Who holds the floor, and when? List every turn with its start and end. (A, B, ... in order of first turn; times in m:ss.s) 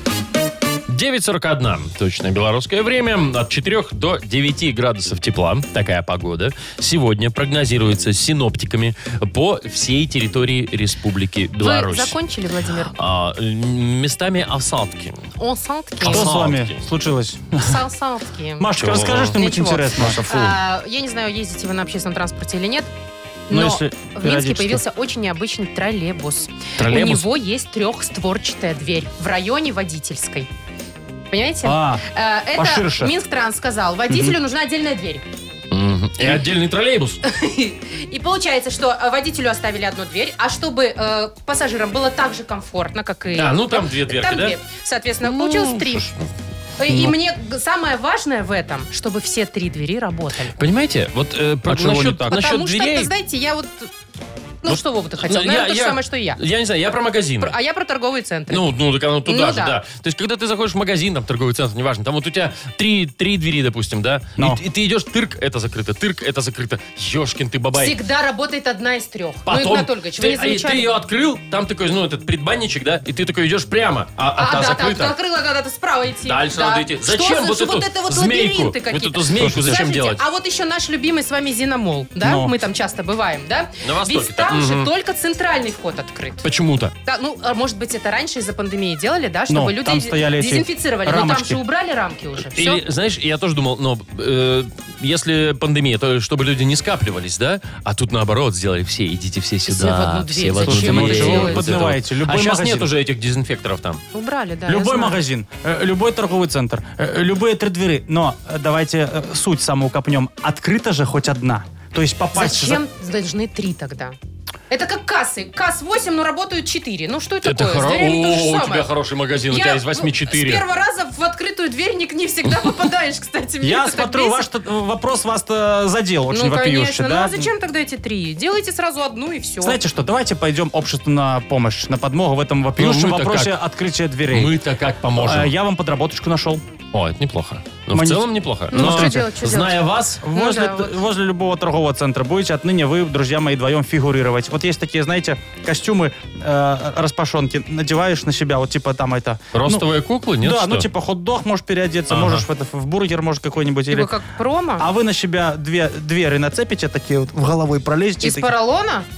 0:00.9-0:12.2 A
0:11.6-0:12.9 B
0:12.9-0:15.2 A
0:15.4-0:16.3 B
0:16.0-0:16.8 A
0:16.0-0:17.8 C
0:17.6-0:18.7 B
0:18.6-0:20.2 C
0:18.8-0:19.4 A
0:19.3-0:22.9 B
0:20.0-0:20.6 A
0:23.5-0:30.5 B
0:23.5-0:24.8 C
0:26.8-0:27.3 A
0:31.3-0:35.2 B
0:31.6-0:33.1 C
0:34.1-0:34.4 C
0:35.7-0:37.2 A
0:37.2-0:46.1 B
0:43.4-0:44.6 A
0:45.2-0:46.3 A
0:46.8-0:50.6 B
0:46.9-0:47.1 A
0:50.6-0:53.1 A
0:51.7-0:52.5 C
0:52.3-0:53.9 B
0:54.6-0:56.4 B
0:54.7-0:57.6 A
0:57.4-0:58.6 B
0:58.5-1:08.0 A
0:59.3-0:59.8 B
1:07.8-1:10.9 B
1:09.5-1:15.2 A
1:14.4-1:26.5 B
1:16.2-1:20.2 A
1:19.4-1:19.8 C
1:22.2-1:22.5 C
1:23.8-1:24.9 A
1:26.4-1:26.9 A
1:27.0-1:32.8 B
1:29.5-1:31.6 C
1:32.5-1:44.0 A
1:39.7-1:41.7 B
1:40.6-1:42.9 C
1:44.1-1:45.2 B
1:44.7-1:52.8 C
1:52.3-1:54.2 B
1:54.7-1:58.9 B
1:57.4-2:00.6 A
1:59.5-2:04.5 B
2:03.6-2:07.5 C
2:06.3-2:09.8 B
2:09.6-2:14.5 C
2:12.8-2:13.6 A
2:14.3-2:15.5 A
2:15.2-2:16.6 C
2:16.9-2:20.2 A
2:17.9-2:19.3 C
2:18.7-2:21.0 B
2:20.2-2:29.9 C
2:29.5-2:30.9 A
2:30.4-2:34.1 C
2:32.1-2:32.5 A
2:33.9-2:34.9 B
2:34.8-2:38.5 C
2:38.2-2:39.1 B